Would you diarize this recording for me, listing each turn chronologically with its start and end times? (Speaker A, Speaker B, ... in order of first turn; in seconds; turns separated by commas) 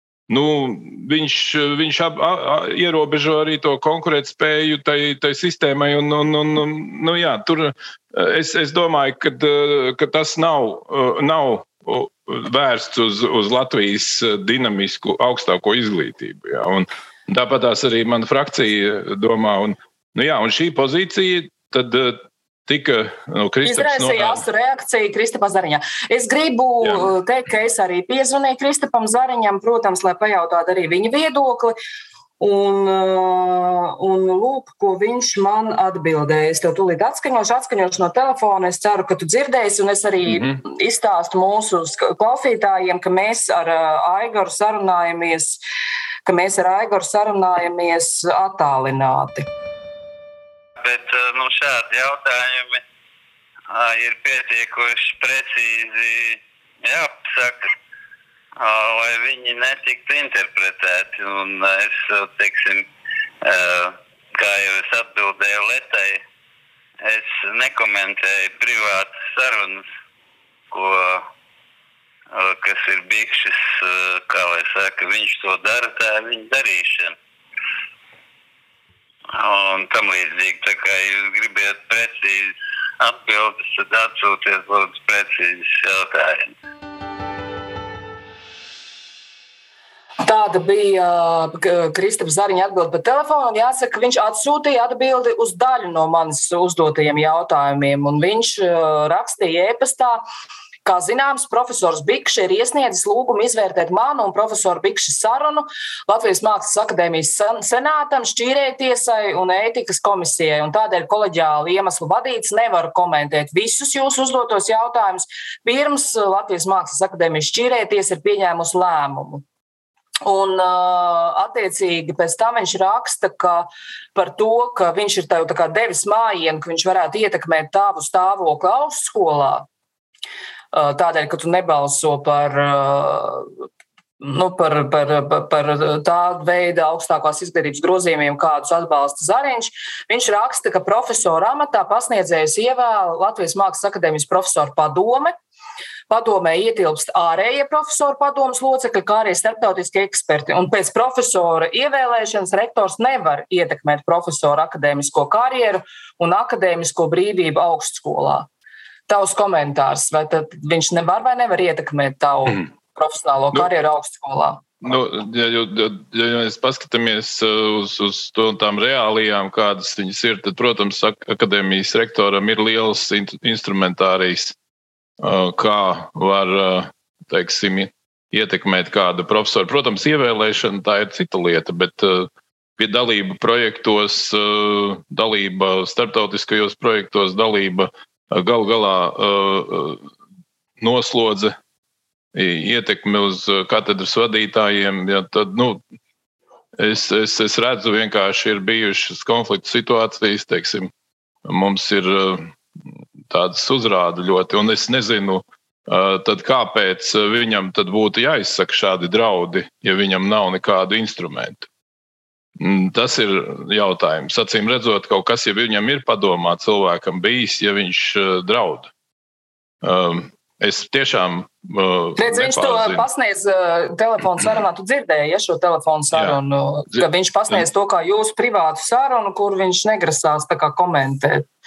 Speaker A: 0.3-24.4, Speaker B: 23.6-31.8, Speaker B: 32.4-45.6, Speaker A: 40.3-40.6, Speaker B: 46.2-49.5, Speaker C: 50.8-52.8, Speaker C: 53.7-57.7, Speaker C: 58.6-62.9, Speaker C: 63.4-66.2, Speaker C: 67.0-69.8, Speaker C: 70.7-71.2, Speaker C: 72.3-77.2, Speaker C: 79.3-86.5, Speaker B: 90.2-100.2, Speaker B: 100.8-119.4, Speaker B: 120.2-129.7, Speaker B: 130.7-133.5, Speaker B: 134.2-145.3, Speaker B: 146.1-158.5, Speaker B: 159.1-164.6, Speaker A: 164.8-174.5, Speaker A: 175.2-190.0, Speaker A: 190.8-191.6, Speaker A: 192.3-195.8, Speaker A: 196.8-200.9, Speaker A: 201.4-202.5, Speaker A: 203.3-211.7, Speaker A: 212.6-218.9, Speaker A: 219.8-223.0, Speaker B: 222.2-231.5, Speaker A: 226.1-226.4, Speaker A: 226.9-227.6